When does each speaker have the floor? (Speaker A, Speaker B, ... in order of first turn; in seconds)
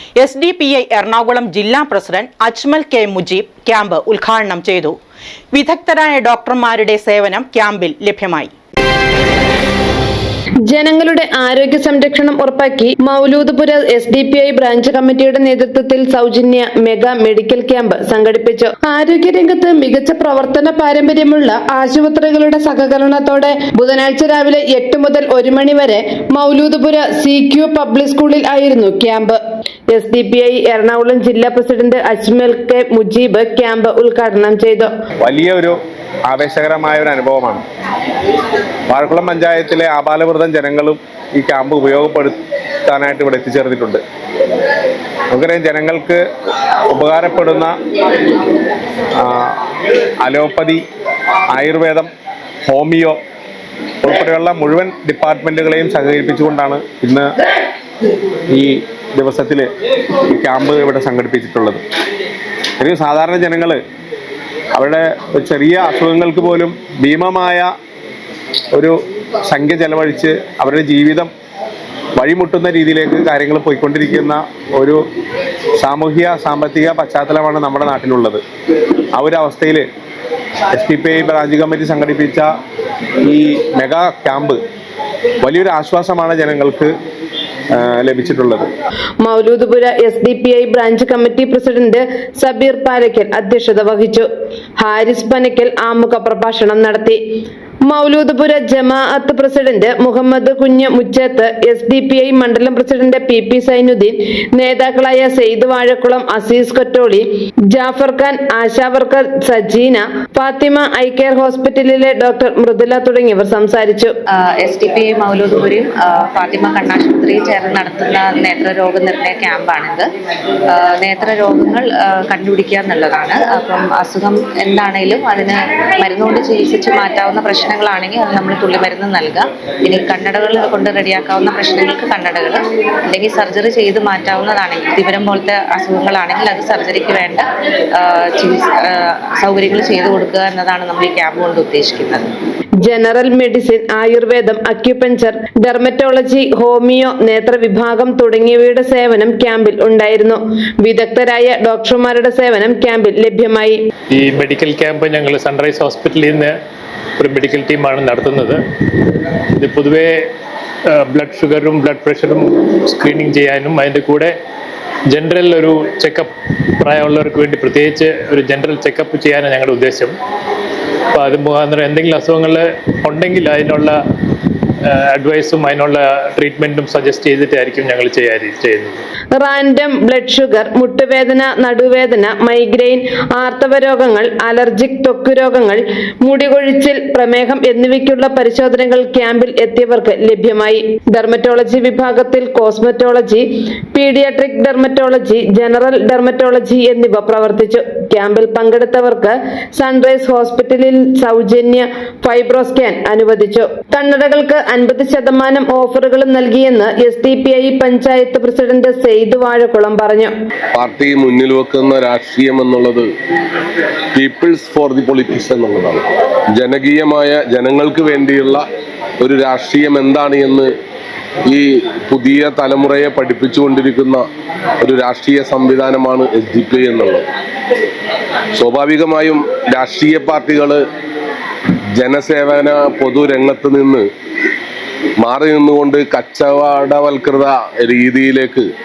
Speaker A: 0.2-5.0, 5.5-8.5
Speaker B: 10.7-29.4, 29.9-34.9, 89.2-94.3, 94.8-97.2, 97.9-114.2, 142.8-153.8, 179.3-210.3
Speaker C: 35.2-35.8, 36.3-37.6, 38.9-44.0, 45.3-46.2, 46.9-47.8, 49.2-49.6, 50.2-50.8, 51.5-52.1, 52.6-53.2, 54.0-57.3, 58.5-59.7, 60.3-61.8, 62.8-63.8, 64.7-67.7, 68.7-71.3, 72.2-75.0, 75.8-78.4, 79.1-79.8, 80.7-82.5, 83.2-84.6, 85.4-86.9, 87.7-88.7
Speaker D: 114.5-120.1, 120.7-142.3
Speaker E: 154.1-156.6, 157.2-158.6, 159.6-160.3, 160.9-164.3, 165.1-170.2, 171.1-174.0, 174.9-179.0
Speaker F: 210.7-213.1, 214.1-218.6, 219.2-220.7, 221.4-224.3, 224.8-227.3, 228.5-230.8, 231.9-234.1, 235.2-238.7